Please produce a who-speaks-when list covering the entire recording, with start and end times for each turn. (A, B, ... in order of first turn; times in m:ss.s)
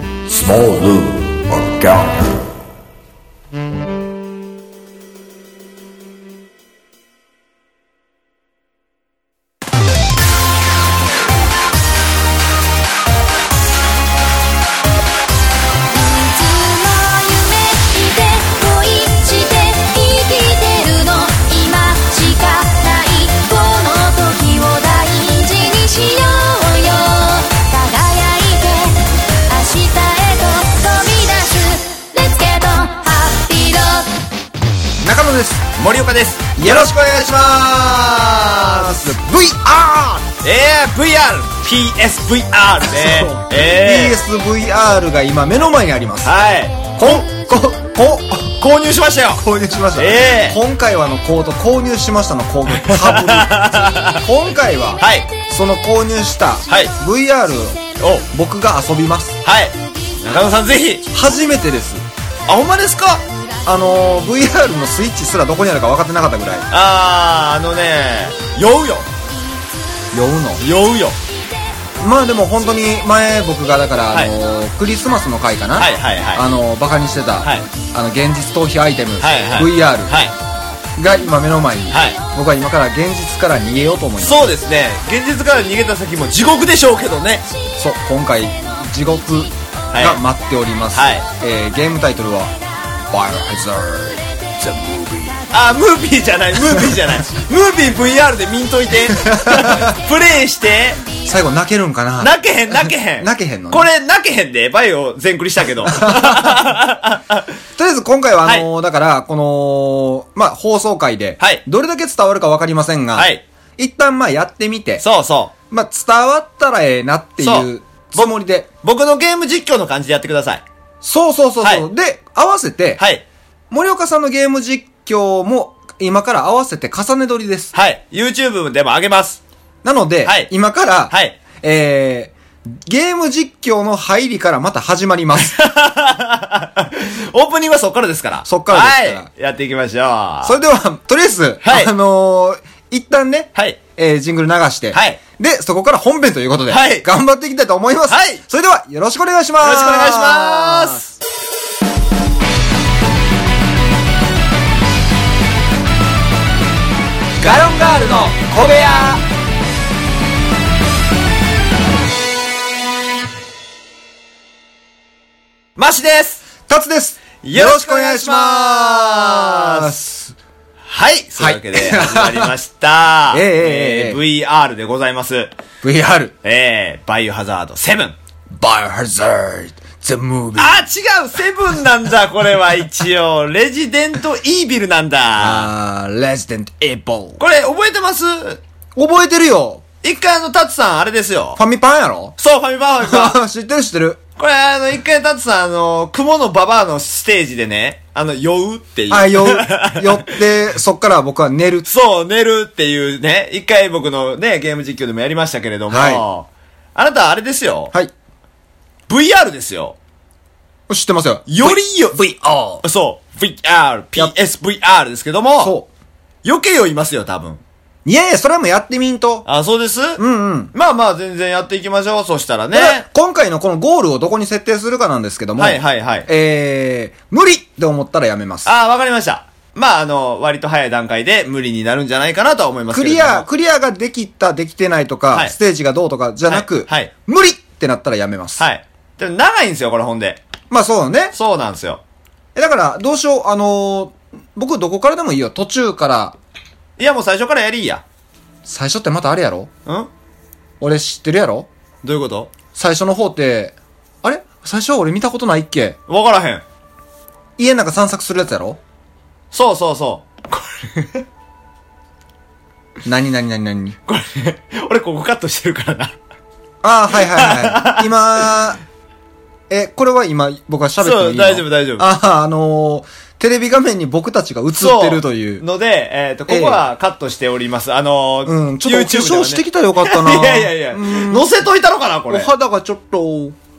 0:15.9-0:34.1 A
0:35.0-0:35.7 B
0:35.8-0:37.0 C
0:36.6-0:40.3 B
0:38.4-0:39.0 C
0:40.4-0:44.2 C
0:42.8-0:46.3 B
0:46.2-0:47.2 C
0:47.0-0:48.6 B
0:48.6-0:49.4 C
0:49.4-0:53.6 B
0:50.0-0:50.6 C
0:52.7-0:54.2 C
0:54.2-0:59.4 B
0:55.0-0:55.3 C
0:56.7-0:56.9 C
0:58.0-0:58.3 C
0:59.4-1:01.1 C
1:01.1-1:02.1 B
1:02.5-1:03.2 C
1:03.6-1:06.7 B
1:06.7-1:09.1 C
1:10.1-1:10.6 B
1:10.6-1:11.2 C
1:12.0-1:20.2 B
1:15.8-1:16.5 C
1:17.4-1:17.7 C
1:19.2-1:20.4 C
1:21.0-1:24.4 B
1:21.9-1:22.2 C
1:24.2-1:27.5 C
1:27.8-1:32.6 B
1:29.9-1:30.2 C
1:30.9-1:31.3 C
1:33.1-1:35.4 B
1:35.5-1:41.0 C
1:39.1-1:40.0 B
1:41.2-1:43.9 B
1:42.2-1:47.5 C
1:45.8-1:46.8 B
1:47.8-1:55.0 B
1:53.2-1:53.4 C
1:55.0-1:55.5 C
1:55.7-1:58.7 B
1:57.4-1:58.3 C
1:58.8-2:00.6 C
2:01.0-2:03.0 B
2:01.6-2:01.9 C
2:03.0-2:03.2 C
2:03.7-2:07.7 B
2:07.7-2:09.4 C
2:09.8-2:15.6 B
2:10.2-2:10.5 C
2:11.1-2:11.4 C
2:15.4-2:20.6 C
2:18.4-2:19.3 B
2:20.4-2:31.0 B
2:21.6-2:21.9 C
2:24.9-2:25.2 C
2:26.7-2:27.1 C
2:28.1-2:28.4 C
2:29.6-2:31.1 C
2:37.4-2:38.9 C
2:37.4-2:39.2 B
2:45.8-2:46.5 C
2:46.7-2:50.4 B
2:47.4-2:50.0 C
2:50.9-2:55.5 C
2:51.4-2:52.5 B
2:53.3-2:54.2 B
2:55.8-2:56.3 B
2:56.4-2:58.2 C
2:58.5-3:00.8 B
3:00.6-3:05.7 C
3:05.4-3:07.4 B
3:07.4-3:08.6 C
3:09.0-3:09.8 B
3:10.0-3:11.6 C
3:11.6-3:12.4 B
3:12.4-3:13.4 C
3:13.0-3:14.2 B
3:14.4-3:20.4 C
3:19.1-3:21.9 B
3:21.9-3:27.9 C
3:25.9-3:26.2 B
3:29.1-3:30.0 C
3:30.9-3:32.8 B
3:31.5-3:32.2 C
3:32.8-3:35.8 C
3:35.6-3:35.9 B
3:36.4-3:37.6 C
3:38.0-3:39.5 B
3:39.5-3:40.2 C
3:40.2-3:40.7 B
3:40.7-3:43.1 C
3:42.7-3:48.7 B
3:45.6-3:46.3 C
3:48.6-3:53.5 C
3:52.9-3:58.6 B
3:56.5-3:57.1 C
3:58.6-4:00.4 C
4:00.7-4:01.3 B
4:01.3-4:02.0 C
4:02.6-4:06.4 B
4:07.0-4:08.0 C
4:08.6-4:09.7 B
4:10.8-4:11.7 B
4:12.0-4:12.5 C
4:12.8-4:16.0 B
4:16.1-4:16.6 C
4:17.6-4:18.8 B
4:19.5-4:21.2 C
4:23.0-4:24.0 B
4:24.1-4:26.2 C
4:26.8-4:28.8 B
4:27.1-4:28.6 C
4:29.7-4:35.6 B
4:31.0-4:32.1 C
4:34.8-4:42.5 C
4:36.5-4:36.8 B
4:38.4-4:41.5 B
4:42.3-4:43.6 B